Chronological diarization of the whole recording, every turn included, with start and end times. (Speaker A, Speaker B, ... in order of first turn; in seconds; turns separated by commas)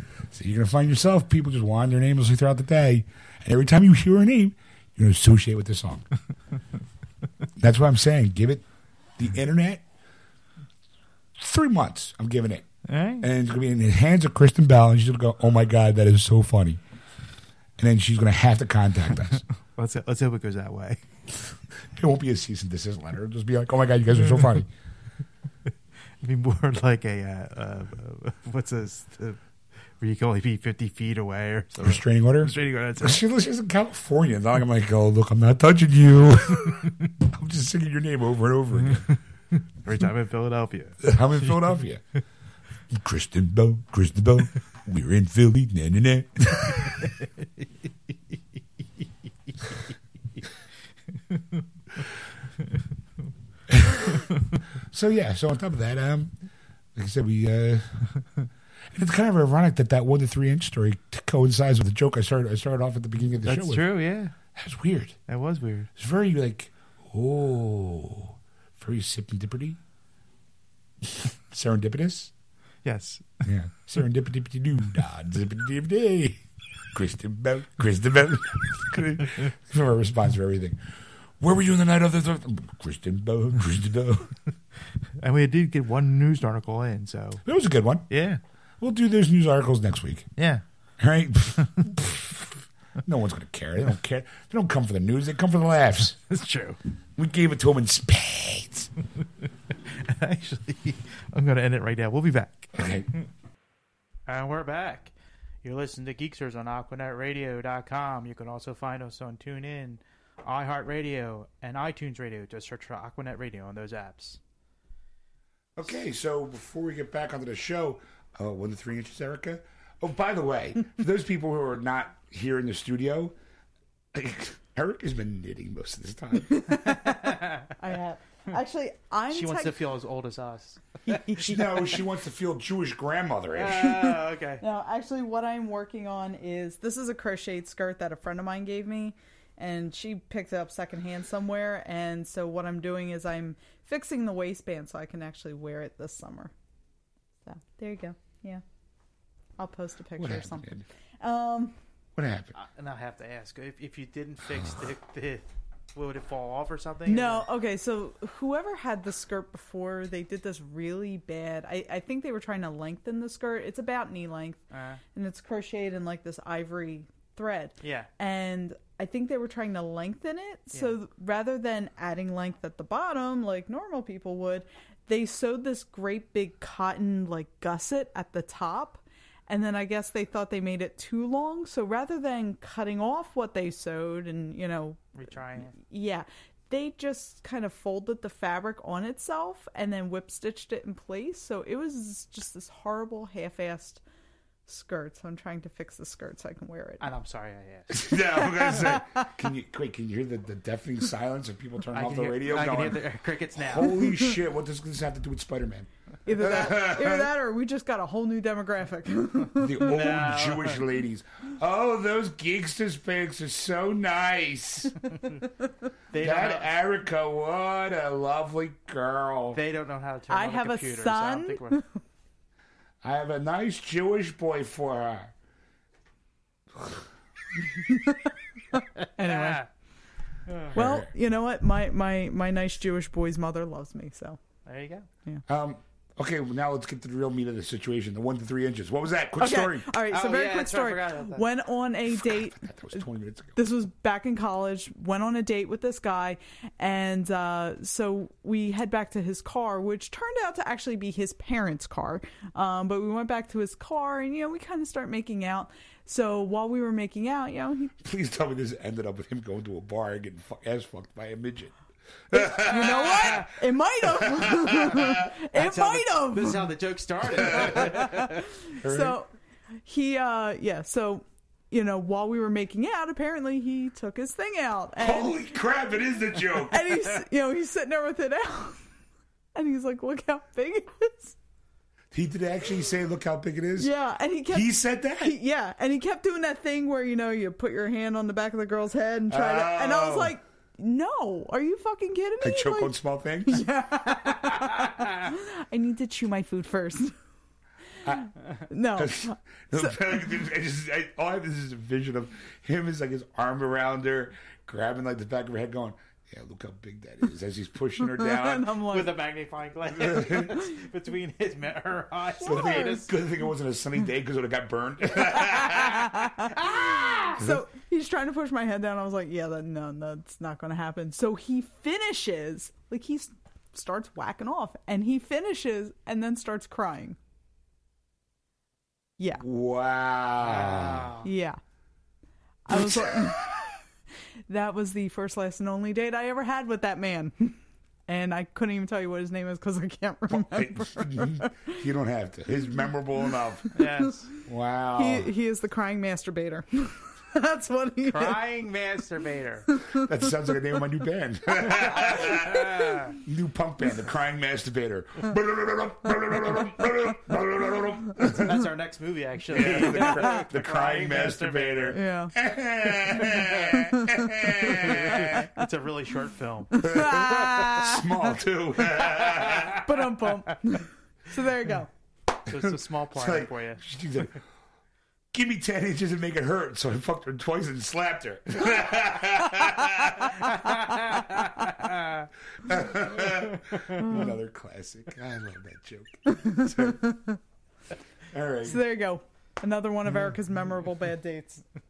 Speaker A: 0.2-6.1, Speaker A: 7.6-8.7, Speaker A: 9.2-9.8, Speaker A: 11.4-12.7, Speaker B: 12.9-13.3, Speaker A: 13.2-16.8, Speaker A: 17.8-19.4, Speaker B: 19.7-21.1, Speaker A: 21.9-24.7, Speaker B: 26.2-29.4, Speaker B: 30.0-33.2, Speaker A: 31.8-39.1, Speaker B: 39.8-41.1, Speaker A: 41.0-42.0, Speaker A: 42.9-46.9, Speaker A: 53.7-54.2, Speaker A: 54.8-56.4, Speaker A: 57.0-58.1, Speaker A: 58.9-65.2, Speaker B: 63.4-64.4, Speaker B: 65.3-65.9, Speaker A: 66.0-69.8, Speaker A: 71.0-72.3, Speaker B: 72.8-73.5, Speaker A: 73.5-80.8, Speaker A: 81.4-84.4, Speaker B: 85.2-87.4, Speaker A: 87.5-88.1, Speaker B: 88.1-88.4, Speaker A: 88.8-90.3, Speaker B: 90.4-90.6, Speaker A: 91.0-96.2, Speaker B: 96.3-96.8, Speaker A: 97.2-98.9, Speaker B: 99.9-102.7, Speaker A: 102.7-103.1, Speaker C: 104.3-114.4, Speaker A: 115.8-123.3, Speaker A: 124.1-126.6, Speaker D: 126.5-129.8, Speaker C: 129.3-131.0, Speaker D: 131.1-132.0, Speaker A: 131.4-134.1, Speaker C: 133.5-134.6, Speaker D: 134.6-146.5, Speaker D: 147.5-148.6, Speaker D: 149.6-150.7, Speaker A: 150.2-150.9, Speaker D: 151.2-151.8, Speaker A: 152.2-152.6, Speaker C: 152.5-157.5, Speaker D: 157.1-194.0, Speaker C: 164.7-165.0, Speaker C: 167.8-168.1, Speaker C: 185.2-185.8, Speaker D: 194.7-197.1, Speaker C: 197.0-198.0, Speaker A: 197.9-207.3, Speaker D: 198.4-199.0, Speaker C: 201.9-204.1, Speaker D: 206.3-210.1, Speaker A: 209.6-215.0, Speaker C: 209.8-210.8, Speaker C: 216.1-216.7, Speaker A: 216.1-219.6, Speaker C: 219.5-221.8, Speaker D: 220.3-222.0, Speaker A: 223.0-225.3, Speaker A: 226.8-227.0, Speaker D: 228.8-229.7, Speaker C: 229.2-229.7, Speaker C: 230.5-230.8, Speaker A: 230.7-231.1, Speaker D: 230.7-234.4, Speaker C: 234.7-235.1, Speaker A: 235.5-239.9, Speaker D: 239.4-243.0, Speaker C: 240.1-241.5, Speaker A: 242.1-243.6, Speaker D: 243.6-257.9, Speaker A: 258.0-261.8, Speaker A: 262.3-263.5, Speaker D: 262.3-266.7, Speaker C: 263.1-263.5, Speaker A: 264.0-265.1, Speaker C: 265.5-268.4, Speaker D: 267.7-269.3, Speaker A: 268.8-269.2, Speaker D: 269.9-275.4, Speaker A: 275.0-277.1, Speaker D: 276.7-278.8, Speaker D: 279.6-281.4, Speaker A: 282.1-283.9, Speaker D: 283.8-297.1, Speaker A: 284.5-285.4, Speaker A: 289.3-290.4, Speaker A: 292.4-293.7, Speaker A: 298.0-308.8, Speaker D: 298.7-300.2, Speaker D: 308.1-309.2, Speaker C: 308.8-313.1, Speaker A: 310.0-310.4, Speaker D: 312.4-313.1, Speaker A: 312.4-317.6, Speaker D: 315.4-327.2, Speaker A: 329.4-331.2, Speaker C: 330.4-331.3, Speaker D: 331.2-331.6, Speaker D: 332.7-333.6, Speaker A: 332.7-333.4, Speaker D: 334.5-341.8, Speaker A: 340.3-343.7, Speaker C: 343.8-344.3, Speaker A: 344.5-345.3, Speaker D: 344.9-348.4, Speaker C: 348.1-349.7, Speaker D: 349.7-350.1, Speaker A: 349.9-352.6, Speaker C: 351.8-353.2, Speaker A: 353.2-358.6, Speaker C: 358.2-362.0, Speaker A: 359.5-365.4, Speaker D: 359.8-360.4, Speaker D: 361.9-362.4, Speaker D: 363.7-364.9, Speaker C: 364.7-366.7, Speaker D: 366.7-368.4, Speaker A: 366.8-369.8, Speaker C: 369.1-369.7, Speaker D: 369.8-371.9, Speaker C: 372.4-373.8, Speaker A: 372.5-374.4, Speaker A: 375.3-380.4, Speaker C: 380.9-381.2, Speaker C: 382.0-382.2, Speaker A: 382.6-387.0, Speaker D: 384.0-384.4, Speaker D: 386.3-387.4, Speaker A: 388.3-388.8, Speaker D: 388.6-391.6